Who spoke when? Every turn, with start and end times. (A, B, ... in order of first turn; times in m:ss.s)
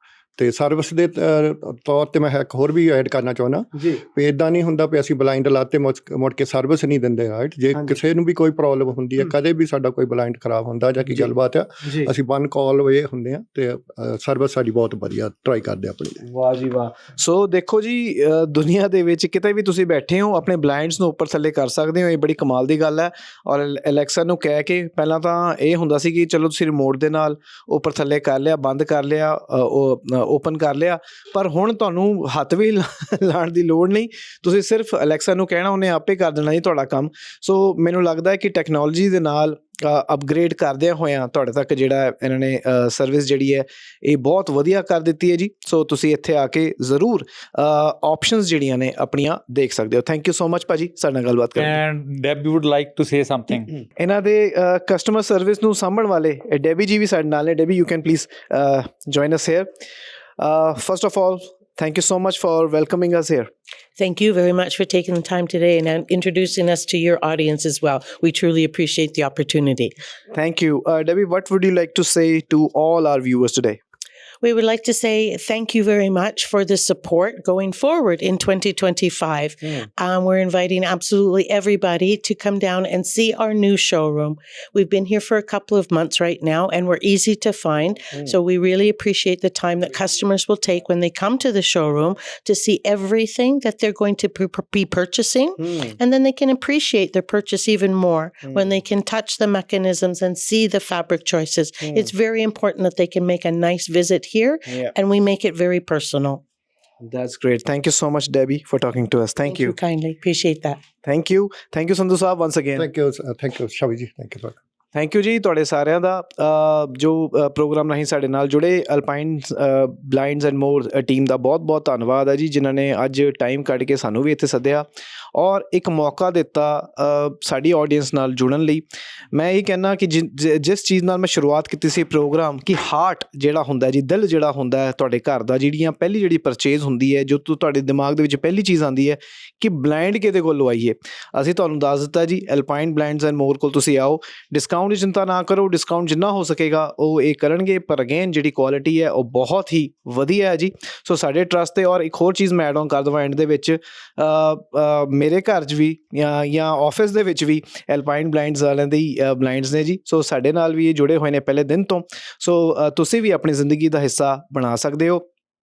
0:00.4-0:16.2 A
0:03.7-0:04.0 B
0:07.7-0:08.0 B
0:11.8-0:12.1 B
0:16.2-0:51.8 B
0:51.6-0:53.7 C
0:53.9-0:59.7 B
1:00.4-1:03.5 B
1:04.0-1:09.9 D
1:10.3-1:13.8 B
1:14.4-1:46.4 D
1:35.6-1:36.0 B
1:38.4-1:38.8 B
1:41.8-1:42.1 B
1:44.7-1:44.9 B
1:47.0-1:49.8 B
1:49.4-1:50.8 D
1:51.0-1:52.9 B
1:52.8-1:54.5 A
1:54.9-2:45.2 B